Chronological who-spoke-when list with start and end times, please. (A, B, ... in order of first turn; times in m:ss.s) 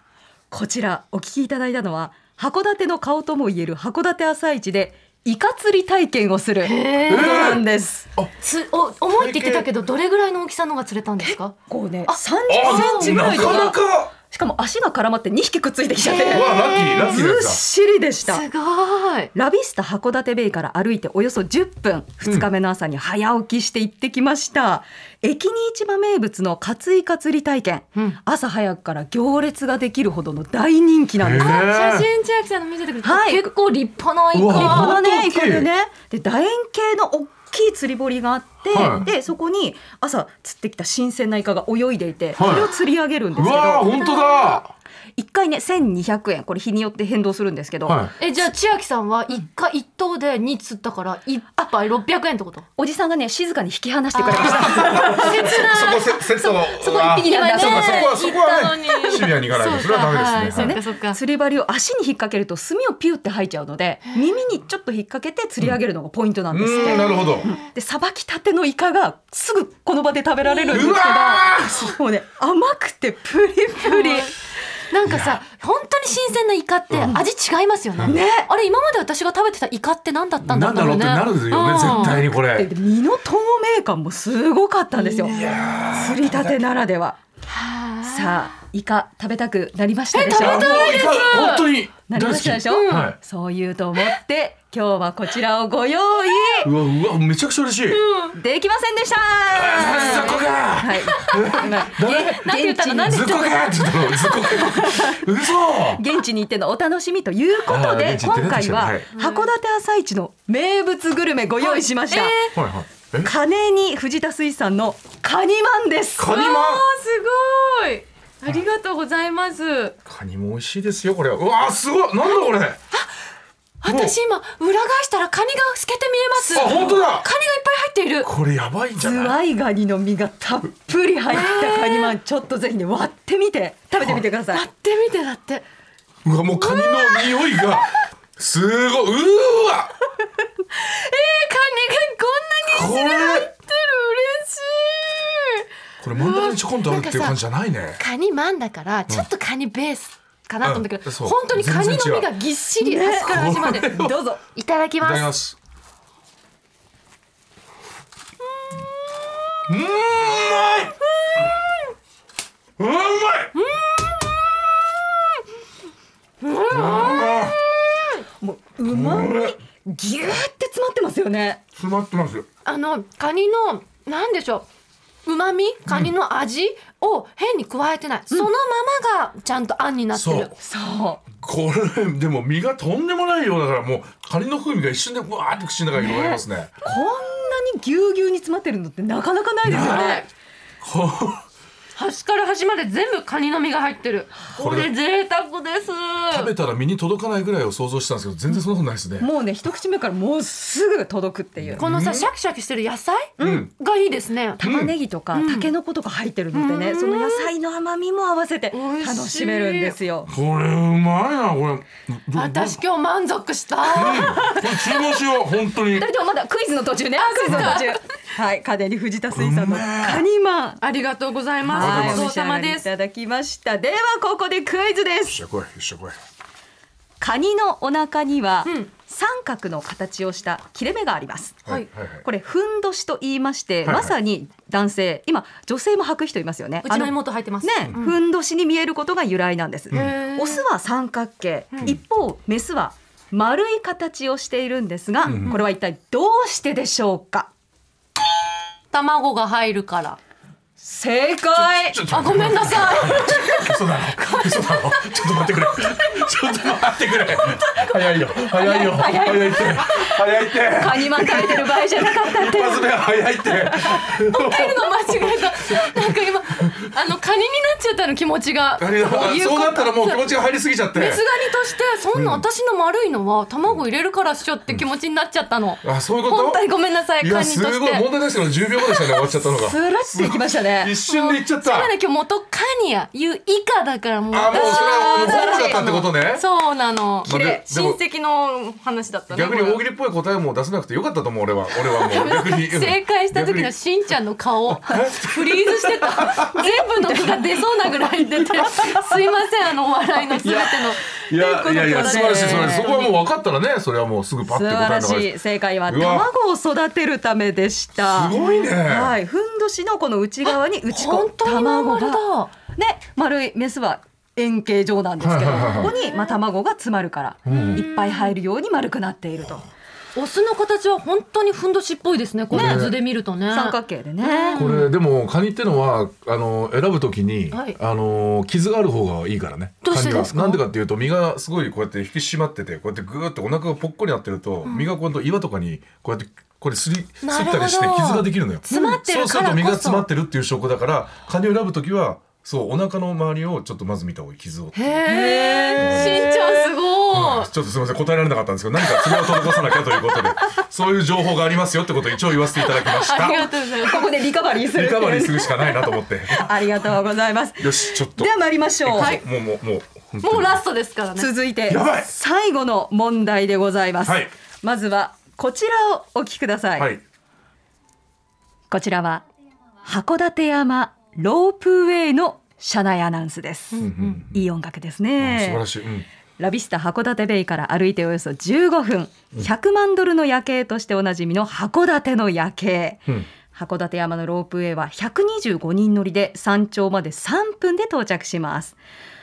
0:00.5-0:08.1 A
0:06.6-0:07.6 B
0:07.1-0:07.6 C
0:08.4-0:11.6 B
0:09.1-0:09.7 C
0:11.2-0:18.4 A
0:12.1-0:13.7 B
0:12.5-0:14.1 C
0:16.0-0:17.2 B
0:16.2-0:17.6 C
0:18.2-0:19.3 B
0:19.3-0:31.6 A
0:31.2-0:32.1 C
0:31.4-0:35.1 B
0:33.0-0:33.5 A
0:34.3-0:35.7 C
0:34.5-0:43.9 A
0:38.7-0:39.1 C
0:42.4-0:42.7 C
0:43.3-0:44.7 C
0:43.9-0:44.6 B
0:45.2-0:48.1 A
0:47.8-0:48.1 C
0:48.2-0:52.6 B
0:52.8-0:55.7 A
0:54.1-1:01.2 B
0:54.4-1:00.8 C
0:56.6-0:59.3 A
1:00.5-1:14.3 A
1:06.5-1:07.5 C
1:06.8-1:07.6 B
1:10.4-1:11.0 B
1:10.7-1:11.9 C
1:13.8-1:14.3 B
1:14.9-1:22.2 B
1:15.0-1:15.4 C
1:16.9-1:17.2 C
1:18.0-1:18.5 A
1:20.4-1:22.7 C
1:21.8-1:27.2 A
1:25.0-1:25.6 B
1:25.2-1:26.6 C
1:27.5-1:28.5 B
1:28.0-1:31.1 A
1:30.1-1:31.7 B
1:30.3-1:33.2 C
1:32.1-1:36.7 A
1:32.7-1:33.1 B
1:36.6-1:38.0 C
1:37.9-1:38.4 B
1:38.3-1:43.5 A
1:39.5-1:42.4 C
1:40.0-1:40.4 B
1:41.5-1:44.6 B
1:43.0-1:46.0 C
1:44.4-1:52.4 A
1:47.6-1:49.1 C
1:49.2-1:49.5 B
1:51.6-1:52.5 B
1:52.5-1:53.3 C
1:53.2-1:56.3 A
1:56.2-1:56.9 C
1:56.2-2:00.0 B
2:00.0-2:02.8 C
2:03.8-2:08.3 B
2:03.8-2:04.2 C
2:06.5-2:07.3 C
2:06.6-2:06.9 A
2:08.2-2:09.4 C
2:09.0-2:14.6 A
2:11.3-2:12.1 B
2:14.5-2:15.6 B
2:16.2-2:19.9 C
2:16.6-2:17.6 B
2:20.7-2:27.4 B
2:22.6-2:23.5 C
2:26.0-2:28.0 C
2:28.0-2:34.0 B
2:30.6-2:32.3 C
2:32.8-2:34.4 A
2:33.2-2:34.1 C
2:34.5-2:35.3 B
2:35.0-2:35.6 C
2:39.7-2:41.0 C
2:42.8-2:43.6 C
2:43.5-2:44.7 B
2:46.4-2:48.2 B
2:46.7-2:47.6 C
2:48.4-2:51.6 A
2:48.9-2:49.6 C
2:51.8-2:52.5 C
2:52.6-2:54.7 B
2:55.2-3:00.5 B
2:55.9-2:56.1 C
3:00.1-3:00.5 C
3:00.6-3:01.2 A
3:01.3-3:06.7 C
3:06.0-3:10.3 A
3:09.6-3:10.2 C
3:09.8-3:10.2 B
3:10.8-3:11.4 C
3:12.0-3:16.5 B
3:14.6-3:14.9 C
3:16.3-3:19.3 C
3:19.2-3:21.8 A
3:21.6-3:22.3 C
3:21.8-3:24.6 B
3:23.4-3:23.7 A
3:23.4-3:23.7 C
3:24.6-3:30.3 A
3:24.6-3:24.9 C
3:25.3-3:25.7 B
3:26.5-3:27.5 B
3:28.7-3:30.0 B
3:30.3-3:32.8 C
3:32.3-3:34.6 B
3:33.8-3:36.1 C
3:34.1-3:34.6 A
3:35.9-3:40.8 A
3:37.2-3:38.0 B
3:37.5-3:37.8 C
3:39.3-3:40.2 C
3:40.8-3:42.9 B
3:41.6-3:45.4 A
3:41.8-3:42.3 C
3:45.3-3:46.2 C
3:47.2-4:07.5 A
3:51.6-3:52.2 C
3:53.8-3:54.1 C
3:56.8-3:58.2 B
3:59.9-4:00.2 C
3:59.9-4:00.6 B
4:05.2-4:05.6 C
4:08.9-4:10.2 B
4:10.8-4:12.0 A
4:11.6-4:26.9 C
4:12.1-4:16.3 B
4:17.4-4:19.4 B
4:18.6-4:22.9 A
4:23.8-4:30.3 B
4:28.8-4:31.2 C
4:30.9-4:38.1 B
4:32.1-4:32.4 C
4:35.8-4:36.6 C
4:37.2-4:41.9 C
4:38.8-4:39.2 B
4:39.6-4:40.9 A
4:41.0-4:49.8 B
4:44.3-4:46.4 C
4:44.5-4:45.9 A
4:47.2-4:48.0 C
4:49.3-4:53.7 C
4:51.9-5:01.0 B
4:54.7-4:56.7 C
4:57.0-4:57.4 A
4:58.4-4:59.1 C
5:00.4-5:06.3 C
5:01.3-5:03.0 A
5:01.6-5:03.1 B
5:04.4-5:19.7 A
5:08.0-5:09.1 C
5:08.3-5:08.7 B
5:10.9-5:12.5 B
5:15.2-5:15.9 C
5:15.7-5:16.3 B
5:17.4-5:17.8 C
5:17.5-5:18.3 B
5:20.1-5:24.9 B
5:22.5-5:23.0 C
5:22.5-5:22.8 A
5:23.5-5:24.6 A
5:24.5-5:45.0 C
5:27.5-5:27.8 B
5:29.8-5:30.6 B
5:34.6-5:34.9 B
5:37.2-5:40.0 B
5:44.7-5:47.5 B
5:45.0-5:46.7 A
5:45.8-5:46.3 C
5:47.1-5:53.5 C
5:52.6-5:54.2 B
5:53.2-5:59.2 A
5:54.6-5:56.8 C
5:57.6-6:00.6 C
6:00.2-6:01.3 B
6:01.2-6:07.0 A
6:01.7-6:02.1 C
6:04.0-6:04.3 C
6:06.8-6:07.0 C
6:08.7-6:09.2 A
6:09.8-6:15.7 A
6:13.7-6:14.2 B
6:13.8-6:14.4 C
6:15.2-6:16.0 C
6:16.4-6:28.8 A